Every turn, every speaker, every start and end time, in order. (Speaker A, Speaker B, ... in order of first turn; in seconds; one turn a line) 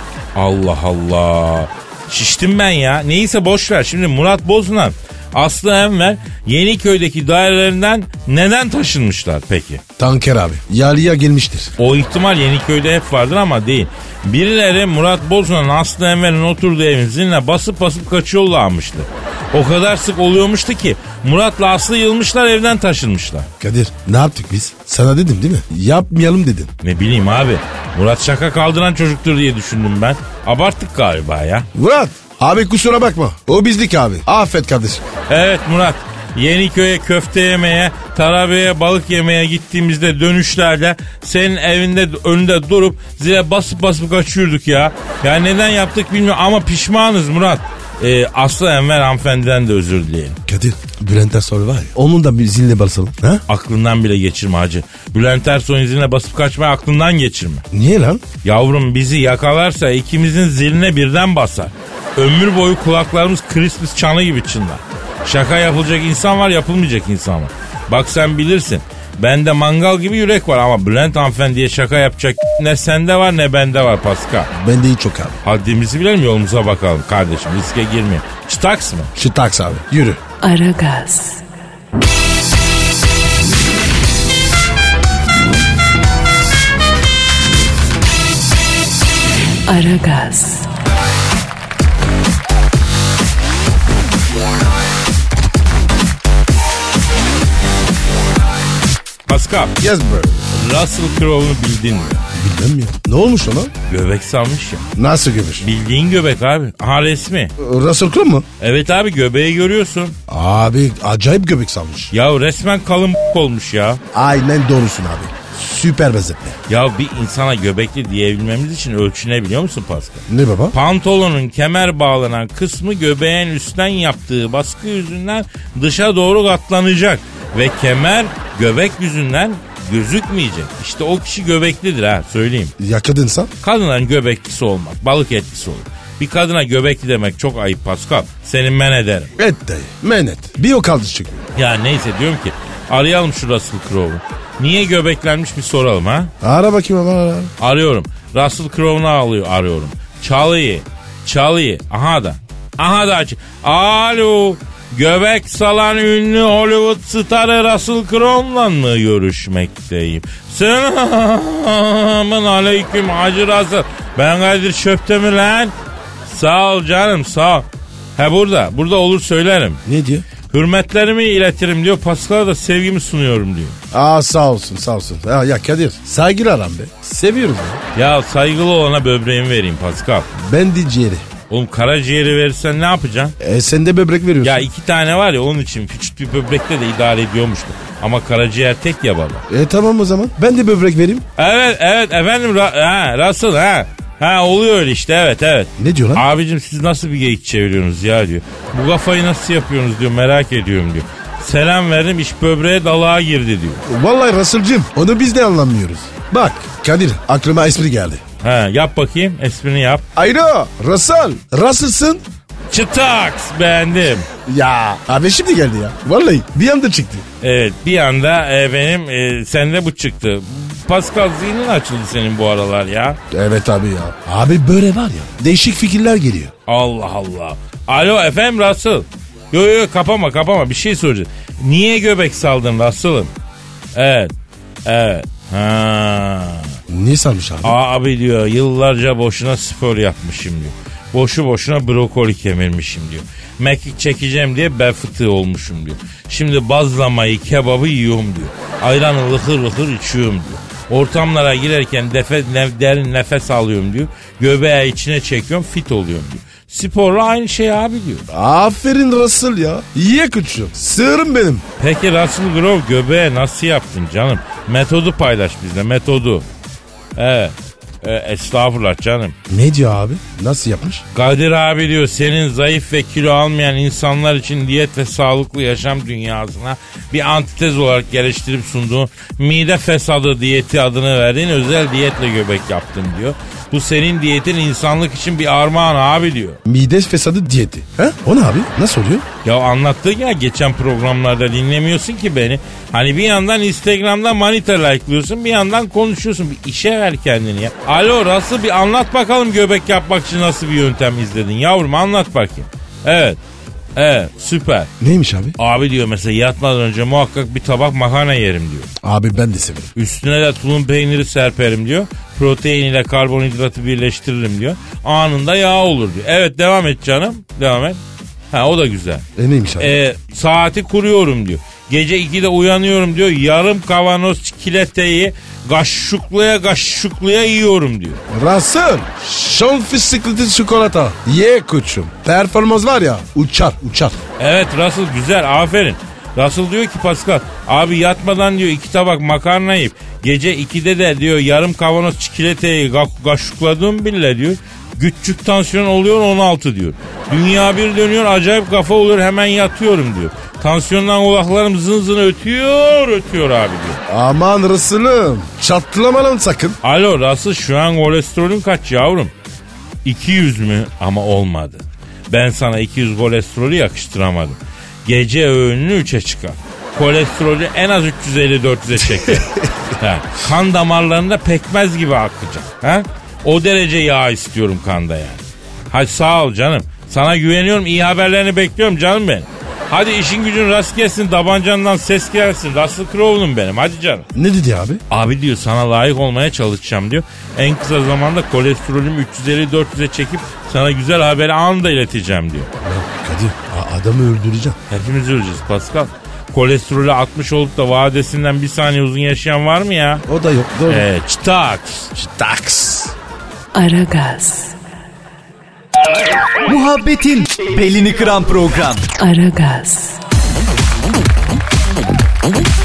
Speaker A: 0.3-9.8
Speaker B: 10.0-11.7
Speaker A: 11.8-23.5
Speaker B: 23.6-26.7
Speaker A: 26.8-31.7
Speaker B: 31.7-35.0
Speaker A: 35.3-50.4
Speaker B: 50.5-53.4
Speaker A: 53.5-57.6
Speaker B: 57.7-58.2
Speaker A: 58.4-74.5
Speaker B: 74.5-75.4
Speaker A: 75.4-79.1
Speaker B: 79.1-80.2
Speaker C: 80.4-81.4
Speaker C: 89.7-90.7
Speaker A: 99.3-99.8
Speaker B: 99.8-100.5
Speaker A: 100.5-102.2
Speaker B: 102.3-103.7
Speaker A: 103.9-104.8
Speaker B: 105.0-105.7
Speaker A: 105.6-107.5
Speaker B: 107.6-108.5
Speaker A: 108.6-110.2
Speaker B: 110.3-112.1
Speaker A: 112.1-114.0
Speaker B: 114.1-116.6
Speaker A: 116.7-132.7
Speaker B: 120.3-120.7
Speaker B: 132.8-133.5
Speaker A: 133.6-139.3
Speaker B: 139.4-141.5
Speaker A: 141.5-146.3
Speaker B: 146.4-147.5
Speaker A: 147.6-165.7
Speaker A: 166.2-169.8
Speaker B: 169.8-170.2
Speaker A: 170.5-173.8
Speaker B: 173.9-177.8
Speaker A: 177.9-180.3
Speaker B: 180.3-181.2
Speaker A: 181.5-183.3
Speaker B: 183.4-184.6
Speaker A: 184.4-189.4
Speaker B: 189.5-191.2
Speaker A: 191.4-203.8
Speaker B: 195.8-196.2
Speaker B: 203.8-208.2
Speaker A: 208.4-210.0
Speaker B: 210.1-212.2
Speaker A: 212.7-214.3
Speaker B: 214.4-217.2
Speaker A: 217.4-223.2
Speaker B: 223.3-226.5
Speaker A: 226.7-233.3
Speaker A: 233.9-234.3
Speaker A: 234.8-236.7
Speaker B: 236.9-237.8
Speaker A: 237.6-258.2
Speaker B: 258.3-261.6
Speaker A: 261.8-266.4
Speaker A: 267.1-269.4
Speaker B: 269.5-271.0
Speaker A: 271.1-286.6
Speaker B: 286.6-289.2
Speaker A: 289.4-303.4
Speaker A: 303.9-304.9
Speaker B: 305.0-305.6
Speaker A: 305.6-308.9
Speaker B: 309.0-309.9
Speaker A: 309.9-318.0
Speaker A: 318.5-319.2
Speaker B: 319.4-319.9
Speaker A: 319.8-328.2
Speaker B: 328.3-334.2
Speaker A: 334.4-354.0
Speaker B: 354.1-356.8
Speaker A: 356.8-359.3
Speaker A: 360.0-384.3
Speaker B: 384.3-385.0
Speaker A: 385.1-392.7
Speaker B: 392.8-394.8
Speaker A: 394.9-400.2
Speaker B: 400.3-401.1
Speaker A: 400.9-402.1
Speaker B: 402.1-403.1
Speaker C: 403.7-404.8
Speaker D: 406.6-409.1
Speaker C: 409.2-410.2